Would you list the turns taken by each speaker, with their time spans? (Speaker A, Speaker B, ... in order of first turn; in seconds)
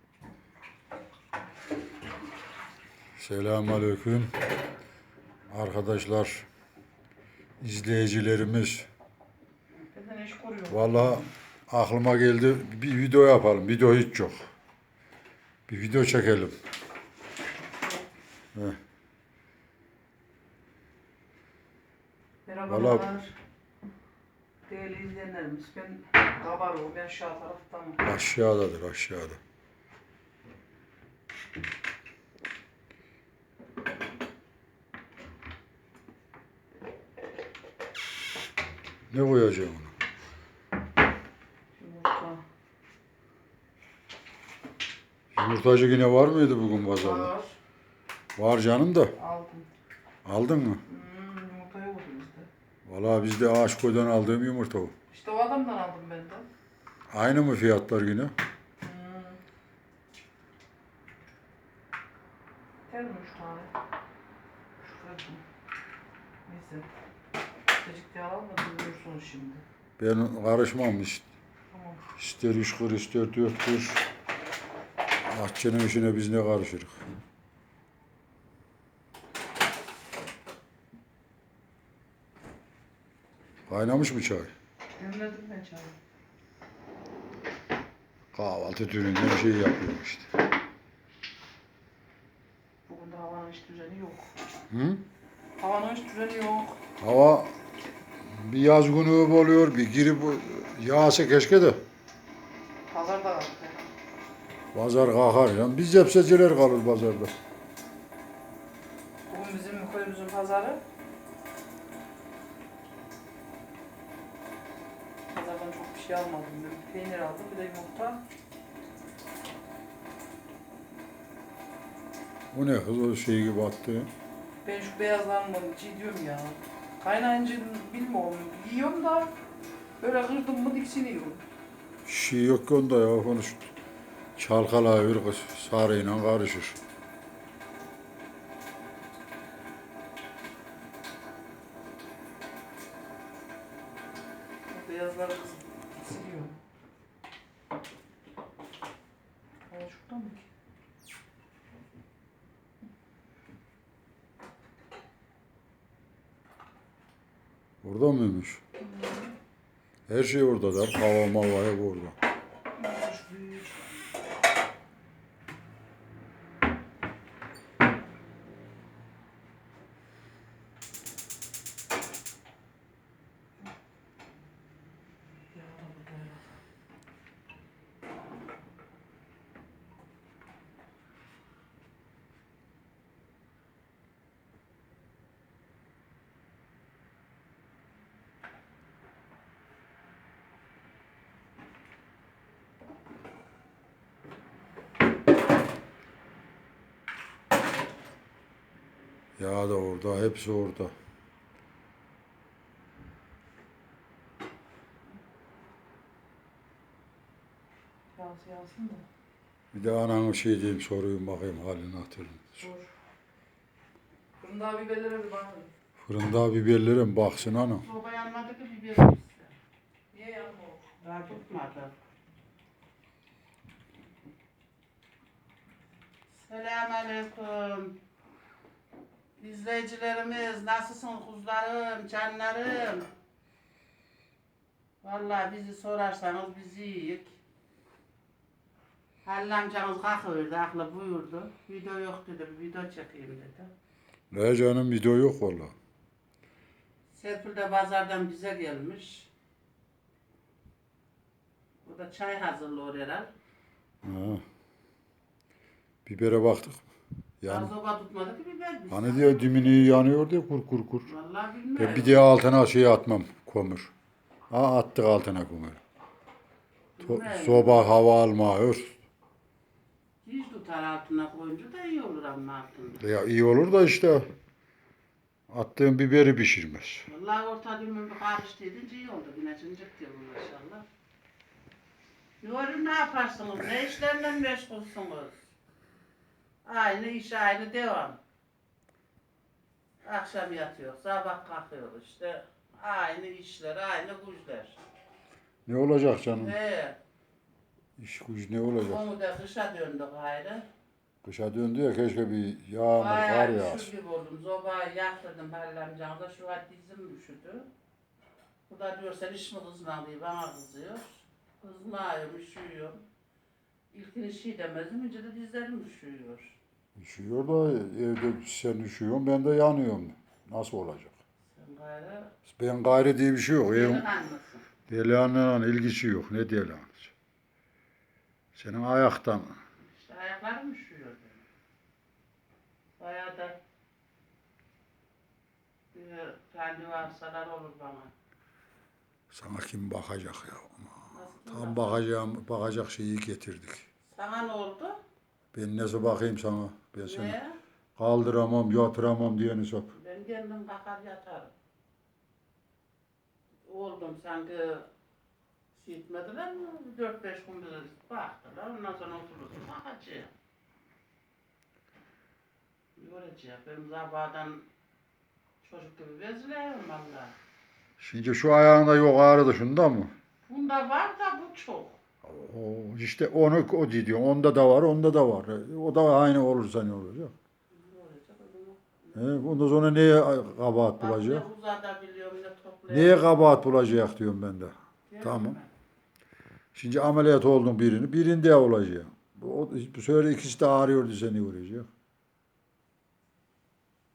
Speaker A: 3.2-4.3, 5.5-6.5, 7.6-8.9, 10.7-14.4, 15.7-16.5, 22.7-23.1, 28.0-29.4, 39.1-39.9, 45.3-47.3, 48.4-49.1, 50.2-50.8, 52.9-54.9, 57.1-58.3, 70.0-71.2, 72.2-74.0, 75.3-77.0, 83.7-84.5, 88.3-90.3, 94.7-95.0, 97.0-97.5, 98.2-101.8, 104.7-107.3, 122.5-124.1, 132.0-133.7, 134.3-136.8, 157.8-158.6, 160.1-162.2, 199.4-200.9, 209.7-212.6, 216.0-217.8, 244.3-245.7, 254.0-254.4, 256.1-256.9, 257.4-257.7, 258.9-261.1, 261.8-263.9, 264.5-265.8, 267.0-269.0, 273.0-274.2, 275.5-277.0, 295.7-296.5, 298.0-299.1, 301.2-303.9, 317.0-321.1, 322.5-324.0, 324.9-327.1, 328.5-329.6, 339.3-343.8, 345.5-347.4, 348.0-349.9, 368.0-370.1, 372.2-377.3, 379.1-381.5, 382.9-385.6, 386.7-391.9
Speaker B: 9.8-11.3, 17.8-18.0, 22.4-23.3, 24.7-28.0, 41.8-42.4, 46.9-47.6, 49.1-49.7, 50.9-52.5, 55.1-56.5, 58.8-59.4, 62.9-63.7, 64.8-65.4, 66.5-66.9, 67.8-69.6, 71.7-72.0, 85.0-85.9, 92.8-94.3, 95.6-96.8, 102.9-103.8, 109.3-110.8, 115.3-118.2, 124.6-129.3, 130.0-131.4, 144.7-146.5, 149.7-150.5, 158.8-159.3, 162.8-164.0, 175.5-176.4, 208.1-209.0, 212.6-212.9, 214.4-215.7, 220.1-220.9
Speaker C: 217.6-219.5, 221.0-221.9, 226.4-227.9, 229.4-233.1, 235.0-237.3, 239.2-243.7, 247.1-249.3, 251.8-253.3, 257.4-260.0, 261.1-262.2, 267.0-268.0, 270.2-273.0, 277.1-280.8, 282.4-285.4, 286.6-288.2, 290.0-294.8, 296.4-296.9, 298.8-300.6, 302.9-307.7, 308.7-313.0, 313.9-316.6, 321.5-322.3, 323.7-324.6, 329.9-331.4, 333.0-333.6, 335.9-338.1, 341.1-342.0, 344.1-345.0, 347.0-347.6, 349.9-351.5, 353.6-354.9, 355.7-360.3, 363.0-364.6, 365.6-367.3, 370.5-372.0, 377.7-379.2, 381.0-383.2, 385.1-385.7